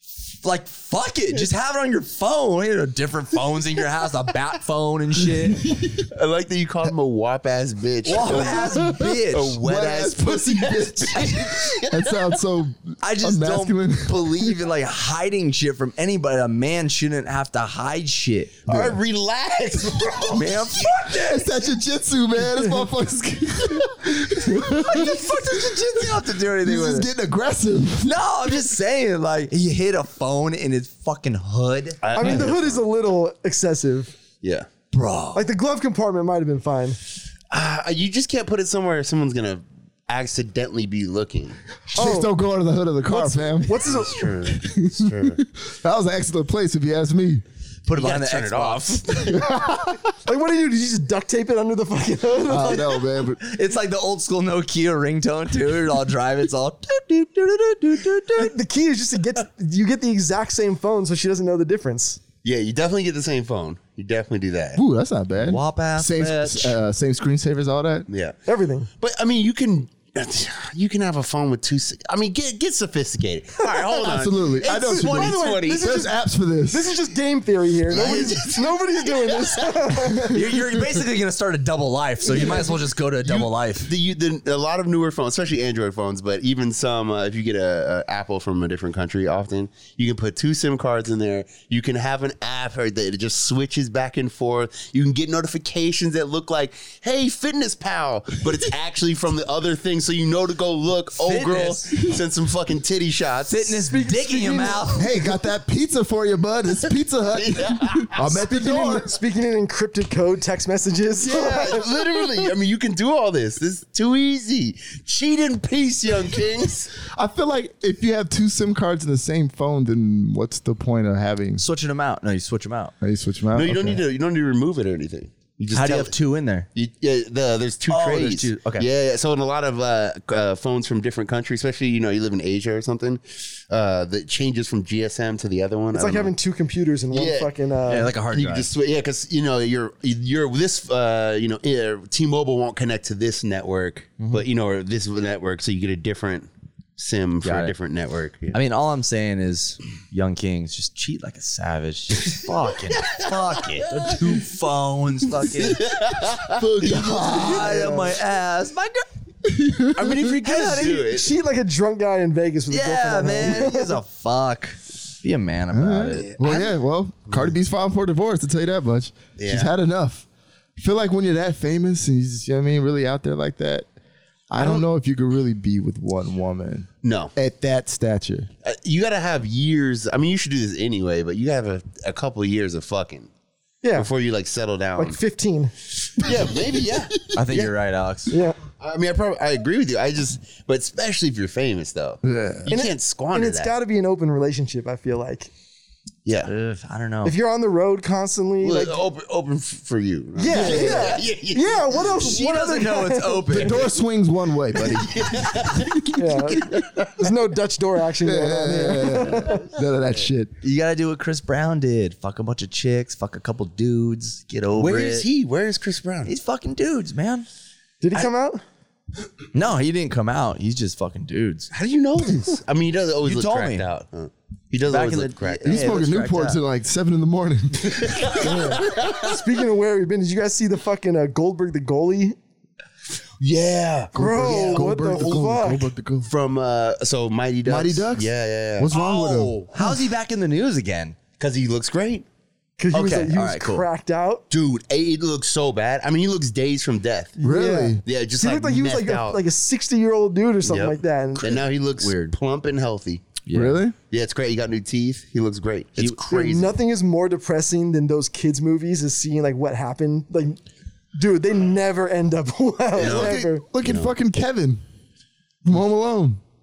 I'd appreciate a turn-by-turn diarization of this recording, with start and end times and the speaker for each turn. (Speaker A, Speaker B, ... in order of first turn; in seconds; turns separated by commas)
Speaker A: 0.4-5.6, Speaker B: 5.3-6.0, Speaker C: 6.1-12.2, Speaker A: 8.0-9.6, Speaker B: 8.1-14.5, Speaker A: 13.0-18.6, Speaker C: 18.6-21.1, Speaker B: 18.7-19.0, Speaker A: 20.3-21.5, Speaker B: 21.1-25.8, Speaker A: 24.4-27.1, Speaker B: 26.6-28.1, Speaker A: 28.0-32.4, Speaker C: 32.0-32.8, Speaker D: 32.1-34.1, Speaker C: 34.4-34.7, Speaker A: 34.9-35.4, Speaker D: 35.3-37.0, Speaker C: 37.5-41.6, Speaker B: 41.9-47.4, Speaker D: 41.9-42.3, Speaker D: 43.1-44.3, Speaker C: 43.8-45.4, Speaker A: 47.9-49.3, Speaker C: 48.0-49.5, Speaker B: 49.3-50.0, Speaker D: 50.2-53.0, Speaker B: 52.5-53.4, Speaker A: 53.4-58.5, Speaker D: 58.4-62.2, Speaker C: 62.4-64.8, Speaker B: 64.8-68.1, Speaker A: 65.4-66.8, Speaker C: 68.1-68.4, Speaker D: 68.5-68.9, Speaker C: 69.0-75.9, Speaker B: 74.0-76.9, Speaker D: 74.7-76.2, Speaker D: 76.7-80.5, Speaker C: 77.9-79.8, Speaker B: 80.2-81.0, Speaker A: 80.3-83.9, Speaker C: 82.3-103.7, Speaker A: 101.1-102.0, Speaker A: 103.5-105.1, Speaker D: 103.8-105.0, Speaker B: 105.0-109.2, Speaker C: 107.3-108.4, Speaker D: 108.3-111.9, Speaker C: 111.2-116.9, Speaker B: 117.0-121.6, Speaker A: 121.6-122.9, Speaker B: 123.0-124.0, Speaker C: 123.5-126.1, Speaker A: 125.7-126.7, Speaker C: 126.7-136.3, Speaker A: 127.9-128.9, Speaker D: 135.9-138.1, Speaker C: 137.1-137.5, Speaker A: 137.9-138.7, Speaker C: 138.2-148.6, Speaker A: 147.4-147.7, Speaker A: 148.5-155.9, Speaker C: 152.9-154.3, Speaker C: 155.4-157.9, Speaker B: 156.6-158.2, Speaker A: 156.8-159.0, Speaker B: 159.4-160.3, Speaker C: 159.9-161.3, Speaker A: 160.4-161.1, Speaker D: 161.1-164.0, Speaker A: 162.7-166.3, Speaker B: 165.7-170.2, Speaker C: 166.2-166.7, Speaker C: 167.3-167.5, Speaker C: 169.4-169.7, Speaker B: 170.8-173.9, Speaker B: 174.5-178.5, Speaker C: 174.6-174.8, Speaker C: 177.0-177.3, Speaker C: 178.6-183.3, Speaker D: 183.8-184.1, Speaker C: 183.9-185.2, Speaker D: 185.0-185.7, Speaker C: 186.2-187.7, Speaker B: 186.2-186.5, Speaker A: 187.3-188.3, Speaker D: 188.3-188.6, Speaker C: 188.8-193.7, Speaker B: 192.2-192.7, Speaker D: 192.7-195.5, Speaker C: 196.2-196.5, Speaker A: 196.4-197.3, Speaker D: 197.2-199.0, Speaker C: 198.6-202.3, Speaker D: 200.4-203.8, Speaker B: 200.5-201.2, Speaker A: 202.1-203.9, Speaker B: 203.5-206.8, Speaker C: 204.7-207.3, Speaker D: 206.2-209.6, Speaker B: 208.2-210.5, Speaker C: 209.3-209.6, Speaker A: 210.6-215.3, Speaker C: 214.8-216.3, Speaker A: 216.2-217.4, Speaker D: 218.0-218.6, Speaker A: 219.5-221.7, Speaker C: 221.7-226.0, Speaker A: 223.2-223.8, Speaker A: 224.9-226.6, Speaker B: 225.6-228.7, Speaker C: 227.9-229.4, Speaker D: 228.4-232.4, Speaker C: 233.4-235.3, Speaker B: 234.1-236.3, Speaker D: 234.1-235.9, Speaker C: 236.2-238.9, Speaker B: 237.6-239.6, Speaker A: 238.9-241.2, Speaker C: 241.4-242.2, Speaker D: 242.8-244.4, Speaker A: 242.9-243.8, Speaker C: 244.5-247.3, Speaker D: 247.4-251.6, Speaker B: 247.4-248.0, Speaker C: 248.0-249.4, Speaker C: 250.6-253.4, Speaker A: 252.0-252.3, Speaker A: 253.5-253.8, Speaker B: 253.5-253.9, Speaker C: 254.1-256.8, Speaker D: 256.3-260.6, Speaker D: 261.1-263.6, Speaker C: 262.9-264.1, Speaker B: 263.0-264.8, Speaker B: 265.6-266.4